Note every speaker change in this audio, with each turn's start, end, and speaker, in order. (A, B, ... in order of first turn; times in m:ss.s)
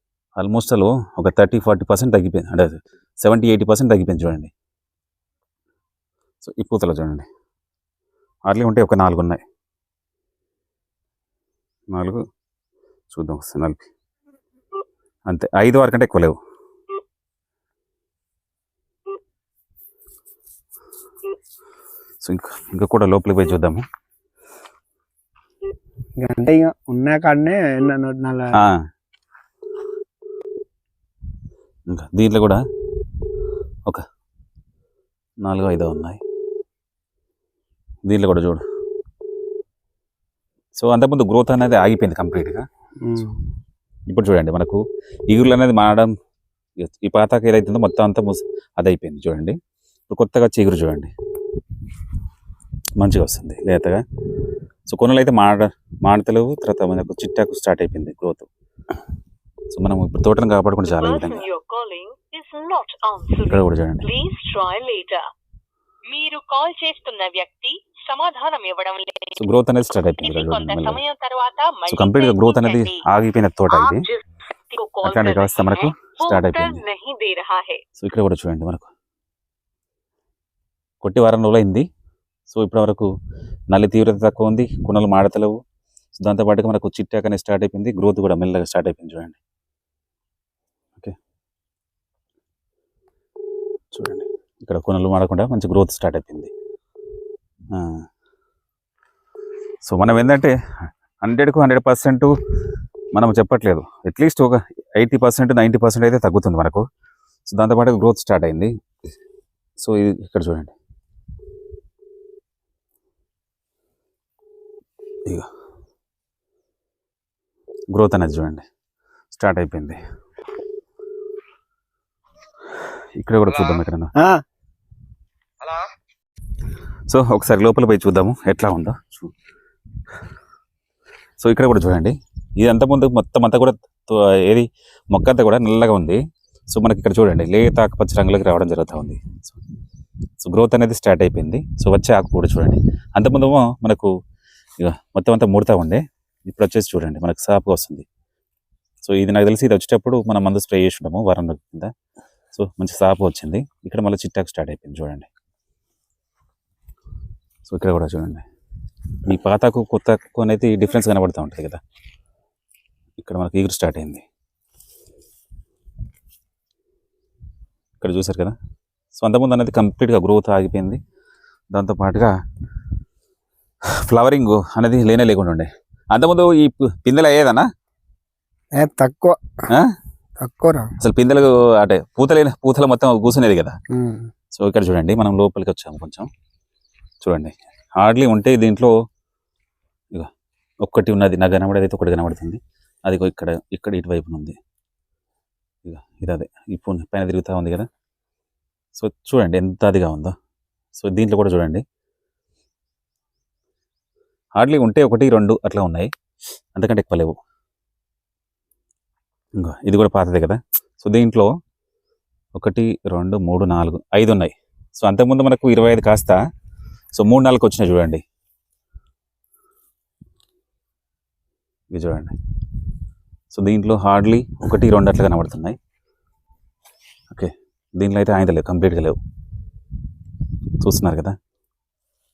0:00.4-0:04.5 A
0:06.4-0:07.3 A
0:08.5-0:09.4 A
0:11.9-0:12.2 A
0:13.1-0:13.9 A
0:15.3-0:16.4 A
0:22.2-0:23.8 A
0:26.2-0:28.6 B
0:31.9-0:32.6 A
0:35.4-0:36.2 A
0:38.0-0:38.6 A
0:40.8-0:42.6 A
0:43.0-0:43.4 B
0:44.1-0:46.1 A
0:46.8-0:49.6 A
0:50.1-0:51.1 A
0:53.0-0:54.0 A
0:54.9-0:58.5 A
0:59.7-1:01.5 A
1:00.8-1:05.2 C
1:03.5-1:04.1 A
1:06.1-1:09.4 C
1:09.4-1:11.0 A
1:10.2-1:13.0 C
1:11.9-1:14.0 A
1:13.7-1:17.8 C
1:15.0-1:16.8 A
1:18.0-1:18.9 A
1:21.0-1:21.9 A
1:22.5-1:23.1 A
1:23.7-1:25.6 A
1:26.2-1:29.4 A
1:33.9-1:36.5 A
1:37.7-1:38.0 A
1:39.9-1:40.5 A
1:41.2-1:42.3 A
1:43.1-1:46.8 A
1:47.5-1:48.7 A
1:49.8-1:50.7 A
1:57.9-1:58.6 A
1:59.3-2:00.0 A
2:03.2-2:04.1 A
2:07.1-2:09.3 A
2:11.4-2:19.6 A
2:20.4-2:24.1 A
2:24.8-2:28.0 A
2:29.0-2:31.9 A
2:32.6-2:35.3 A
2:37.7-2:38.4 A
2:39.3-2:41.8 A
2:43.2-2:44.2 A
2:48.0-2:48.6 A
2:49.2-2:51.0 A
2:51.7-2:52.3 A
2:54.0-2:57.7 A
2:58.8-2:59.4 B
3:00.4-3:00.9 B
3:01.0-3:03.8 A
3:03.9-3:04.3 B
3:04.5-3:06.3 A
3:07.2-3:08.9 A
3:10.8-3:14.6 A
3:15.8-3:17.9 A
3:19.0-3:20.4 A
3:21.0-3:21.8 A
3:24.6-3:26.1 A
3:26.8-3:27.4 A
3:29.6-3:31.5 A
3:32.6-3:36.4 A
3:37.1-3:38.2 A
3:41.9-3:42.3 A
3:43.5-3:45.8 A
3:47.3-3:49.2 A
3:50.8-3:51.4 A